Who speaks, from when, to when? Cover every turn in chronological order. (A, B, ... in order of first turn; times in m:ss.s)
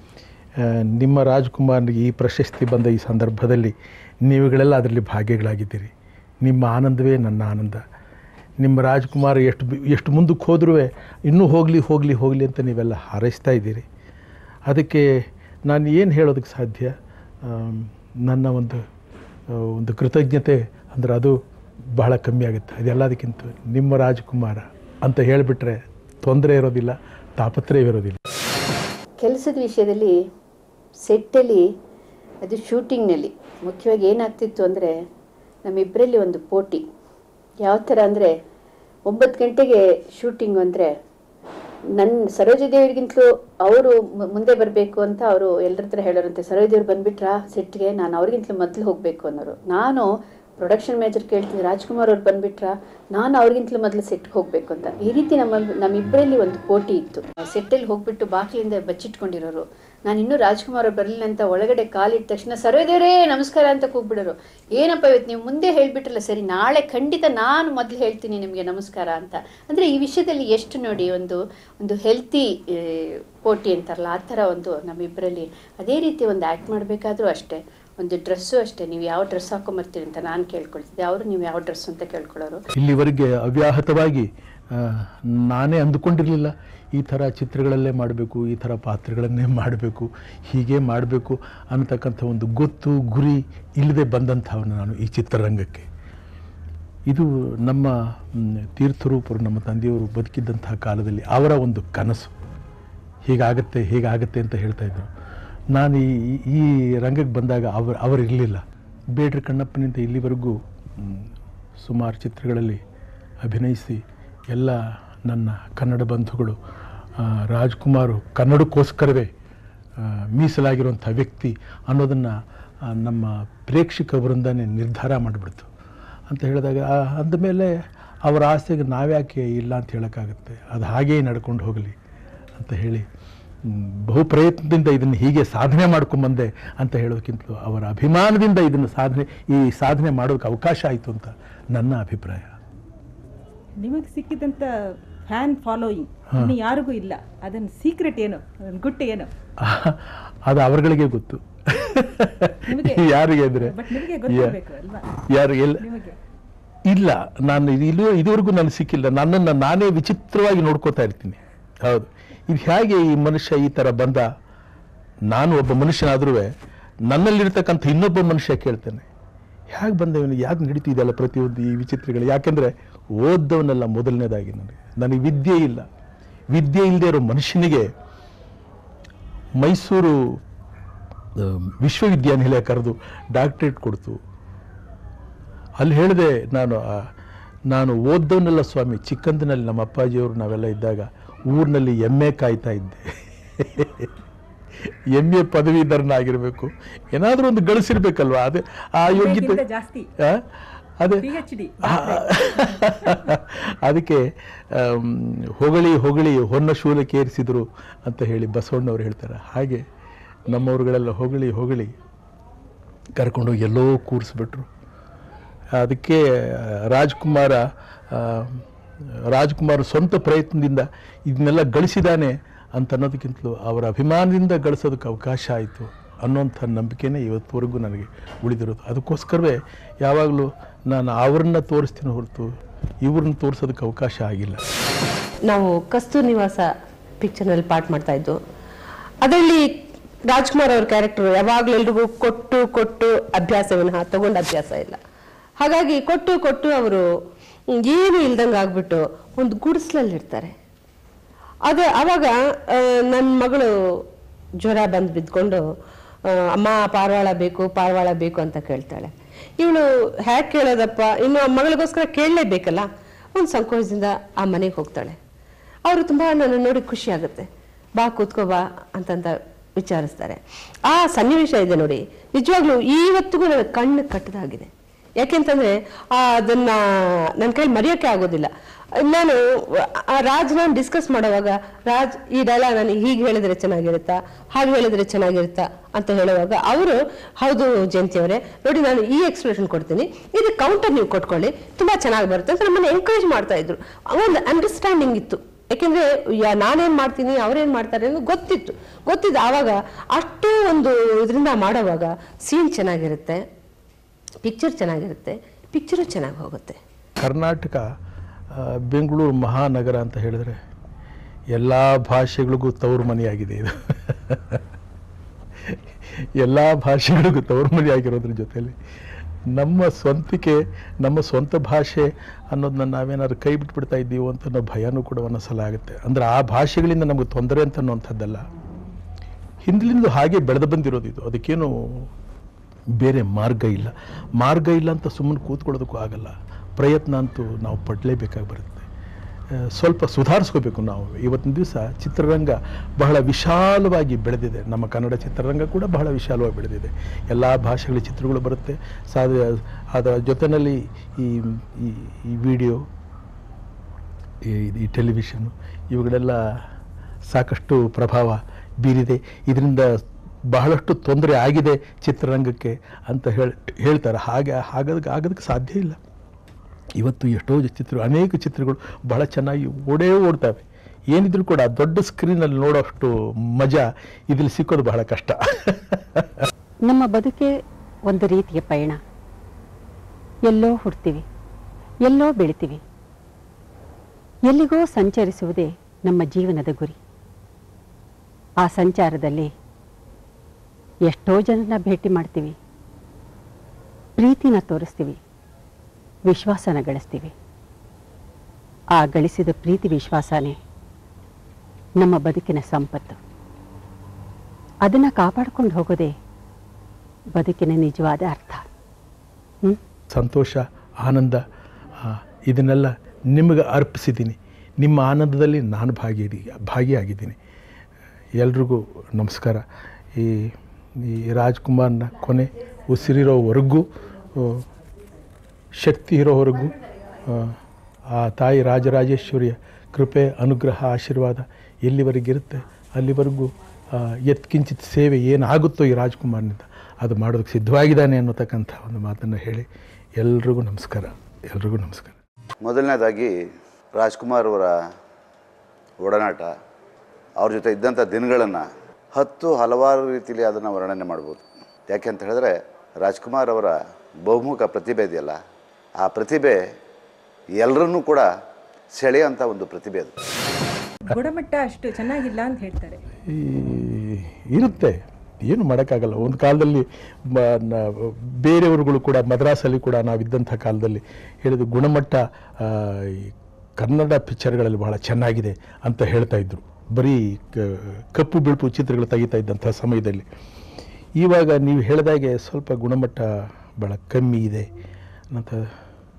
0:00.6-0:03.7 A
0:04.3-0:05.9 A
0:06.4-0:07.8 A
0:08.6-0:13.9 A
0:14.7-0:15.1 A
0:15.7-0:18.8 A
0:19.5-0:21.4 A
0:22.0-0:28.2 A
0:29.2-0:30.2 B
0:31.0-0:31.7 B
0:32.4-0:35.0 B
0:35.6-0:36.8 B
0:37.6-0:38.3 B
0:39.1-0:40.9 B
0:42.0-1:22.6 B
1:22.8-1:35.9 A
1:37.1-1:42.3 A
1:43.3-1:45.1 A
1:45.7-1:48.6 A
1:49.2-1:51.3 A
1:51.8-1:52.8 A
1:53.4-1:56.6 A
1:57.2-1:59.3 A
2:00.0-2:02.4 A
2:02.9-2:05.7 A
2:06.3-2:12.0 A
2:12.6-2:13.1 A
2:13.7-2:22.6 A
2:23.8-2:24.7 C
2:25.3-2:29.3 C
2:29.6-2:34.6 A
2:32.7-2:35.1 C
2:35.3-2:35.8 A
2:35.8-2:36.2 C
2:36.9-2:44.2 A
2:45.3-2:46.5 A
2:47.1-2:49.1 A
2:49.7-2:55.9 A
2:56.5-2:57.9 A
2:59.6-3:00.2 A
3:01.4-3:04.2 A
3:05.8-3:07.1 A
3:07.7-3:14.1 A
3:15.2-3:19.6 A
3:19.1-3:20.1 C
3:21.0-3:21.3 A
3:21.2-3:22.9 C
3:21.8-3:29.8 A
3:30.5-3:31.9 A
3:33.2-3:34.7 A
3:35.8-3:37.6 A
3:38.1-3:38.6 A
3:39.3-3:52.5 A
3:53.0-3:54.6 A
3:55.5-3:56.7 D
3:57.2-3:58.4 D
3:59.2-3:59.7 D
4:00.3-4:05.0 D
4:05.6-4:07.0 D
4:07.8-4:10.6 D
4:11.7-4:13.7 D
4:14.6-4:15.7 D
4:16.6-4:25.2 D
4:25.9-4:34.7 D
4:35.2-4:36.7 D
4:37.4-4:38.5 D
4:39.0-4:39.4 D
4:40.2-5:03.4 D
5:04.4-5:06.8 D
5:07.2-5:07.8 A
5:08.6-5:10.6 A
5:11.5-5:14.6 A
5:16.4-5:18.8 A
5:19.5-5:28.4 A
5:29.6-5:32.1 A
5:33.0-5:38.9 A
5:39.8-5:52.8 A
5:54.5-5:56.6 A
5:57.3-5:59.9 A
6:00.5-6:06.0 A
6:07.0-6:16.4 A
6:16.8-6:17.5 E
6:18.1-6:19.0 E
6:20.5-6:21.2 E
6:22.1-6:22.8 E
6:24.5-6:27.0 E
6:28.6-6:29.5 E
6:31.1-6:32.6 E
6:34.2-6:35.2 E
6:36.3-6:37.3 E
6:39.0-6:40.6 E
6:42.0-6:43.2 E
6:44.9-6:46.1 E
6:47.4-6:48.6 E
6:50.1-6:51.4 A
6:52.0-6:57.4 A
6:58.4-6:59.6 A
7:00.2-7:00.5 A
7:01.0-7:04.6 A
7:05.8-7:06.8 A
7:07.3-7:07.5 A
7:08.1-7:19.7 A
7:20.2-7:22.2 A
7:22.6-7:23.3 F
7:24.0-7:24.8 F
7:26.0-7:26.5 F
7:27.4-7:35.4 F
7:36.0-7:36.7 F
7:37.6-7:38.3 F
7:38.9-7:40.1 F
7:41.1-7:43.0 C
7:43.3-8:00.3 A
8:01.2-8:04.7 A
8:05.3-8:05.7 A